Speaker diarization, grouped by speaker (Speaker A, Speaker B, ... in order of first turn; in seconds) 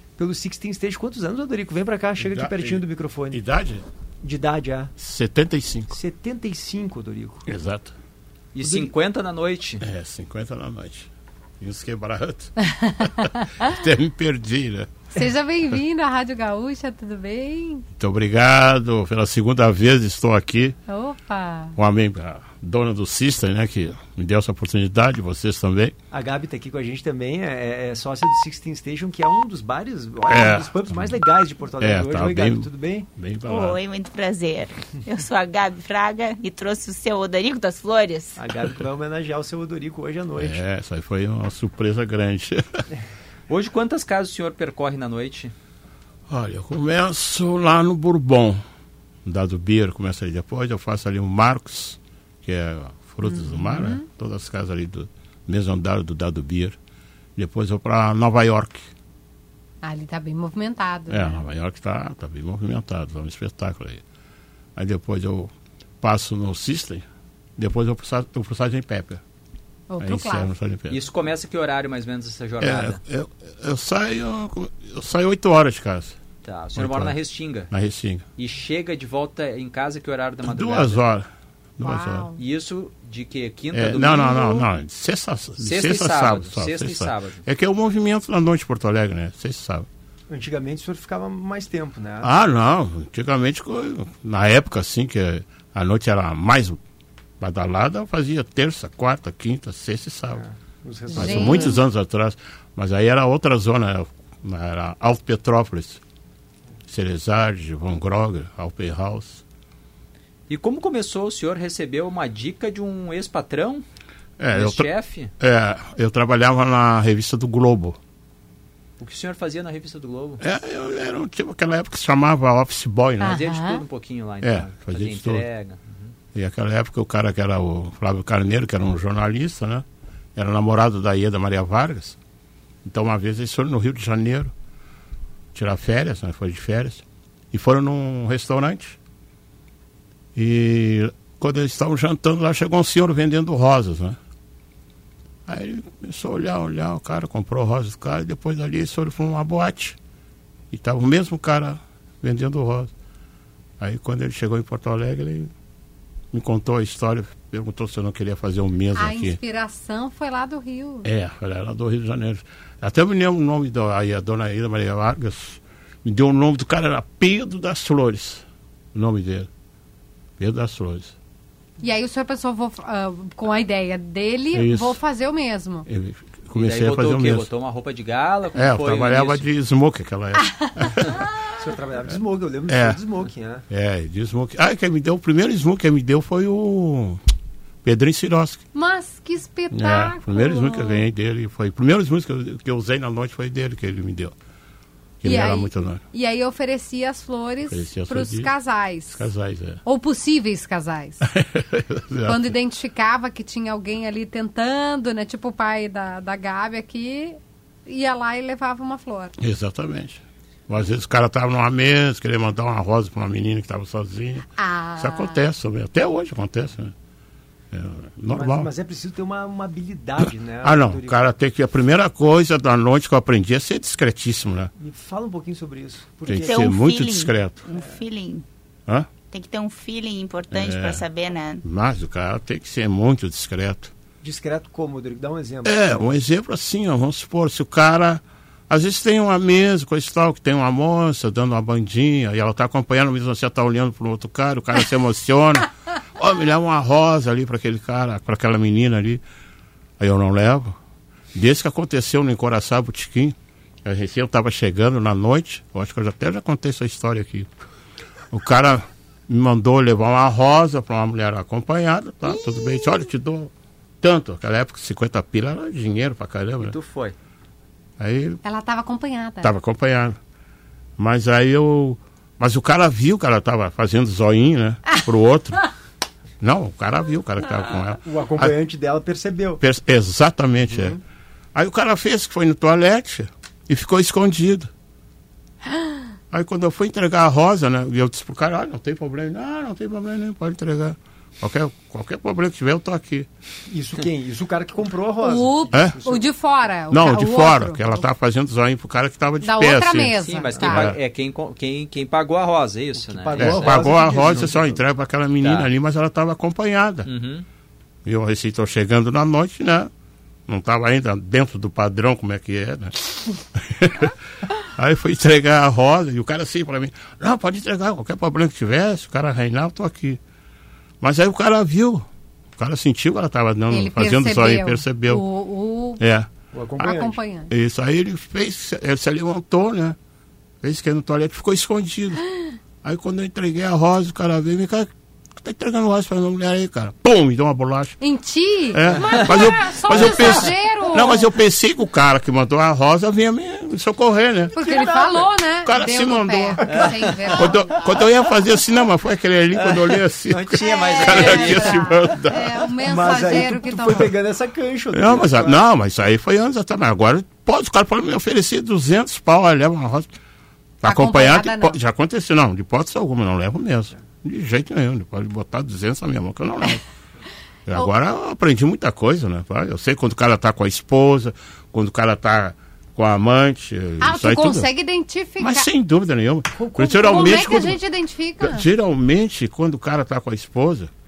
Speaker A: 0.2-3.4, 4.2-4.9, 5.9-7.5, 8.6-8.9, 26.1-33.1, 38.4-40.6, 90.3-92.3, 100.3-101.8, 181.6-183.7, 218.3-221.2, 224.8-226.7, 234.2-236.0, 278.0-279.6, 280.7-281.0, 293.7-296.3, 302.9-304.8, 326.5-327.2, 344.6-345.3, 350.3-351.5, 352.8-355.6, 376.5-377.8
Speaker B: 2.2-3.8, 5.0-5.9, 7.5-7.9, 9.8-15.0, 18.0-20.8, 21.8-25.9, 30.3-31.2, 31.8-33.8, 40.4-42.6, 46.3-48.6, 49.2-56.8, 57.4-58.9, 61.1-64.0, 64.8-67.1, 67.6-69.2, 70.0-71.1, 72.6-76.2, 76.8-77.2, 77.7-78.3, 80.4-82.3, 83.7-89.9, 92.2-96.8, 97.4-100.4, 101.1-106.0, 106.9-109.4, 114.4-118.0, 120.4-123.4, 124.4-125.4, 126.3-132.2, 132.8-134.5, 135.5-139.0, 140.3-144.2, 145.5-150.0, 150.7-152.9, 153.8-155.5, 156.3-159.4, 161.0-169.5, 170.4-171.2, 174.5-175.0, 175.9-177.5, 178.5-181.2, 182.7-183.0, 183.7-187.2, 187.8-188.6, 189.7-194.3, 195.2-196.0, 197.7-198.5, 199.1-199.8, 201.2-202.5, 209.4-216.9, 217.7-218.7, 220.6-224.7, 226.3-227.6, 230.5-231.1, 231.6-233.9, 235.7-249.2, 250.0-250.8, 251.3-257.5, 258.3-266.8, 268.0-268.4, 269.4-270.2, 271.0-275.7, 276.4-278.5, 279.6-281.0, 281.5-284.7, 286.3-293.3, 296.9-301.0, 303.4-307.1, 308.1-309.9, 310.5-314.1, 314.8-320.2, 321.0-325.2, 326.0-326.3, 327.5-330.0, 330.6-332.2, 332.8-338.0, 338.7-344.6, 345.6-352.7, 354.9-360.1, 360.8-366.8, 367.7-374.7, 375.4-377.8, 378.4-380.9
Speaker C: 8.6-9.8, 43.5-45.5, 70.9-73.0, 76.5-77.7, 78.4-81.0, 82.4-84.7, 85.6-87.4, 110.5-113.8, 114.5-115.3, 119.0-120.4, 123.2-126.1, 176.5-179.5, 266.6-267.2, 300.2-304.4, 305.4-305.7, 307.1-307.5, 346.7-348.0, 349.6-352.0
Speaker D: 12.7-13.7, 15.2-17.9, 20.9-21.8, 53.2-54.0, 59.8-61.4, 69.9-70.5, 81.8-82.4, 101.1-101.8, 123.2-123.8, 158.9-161.1, 171.8-175.9, 180.4-181.5, 188.7-191.1, 195.2-199.3, 199.8-201.2, 202.3-209.3, 214.6-215.4, 268.4-269.5, 295.2-298.1, 299.4-300.9, 323.7-326.0, 326.8-327.5, 338.0-341.3, 344.5-347.9, 350.7-354.1, 360.8-361.8, 374.0-375.7, 376.9-378.7
Speaker E: 33.5-38.4, 226.4-228.4, 229.3-231.6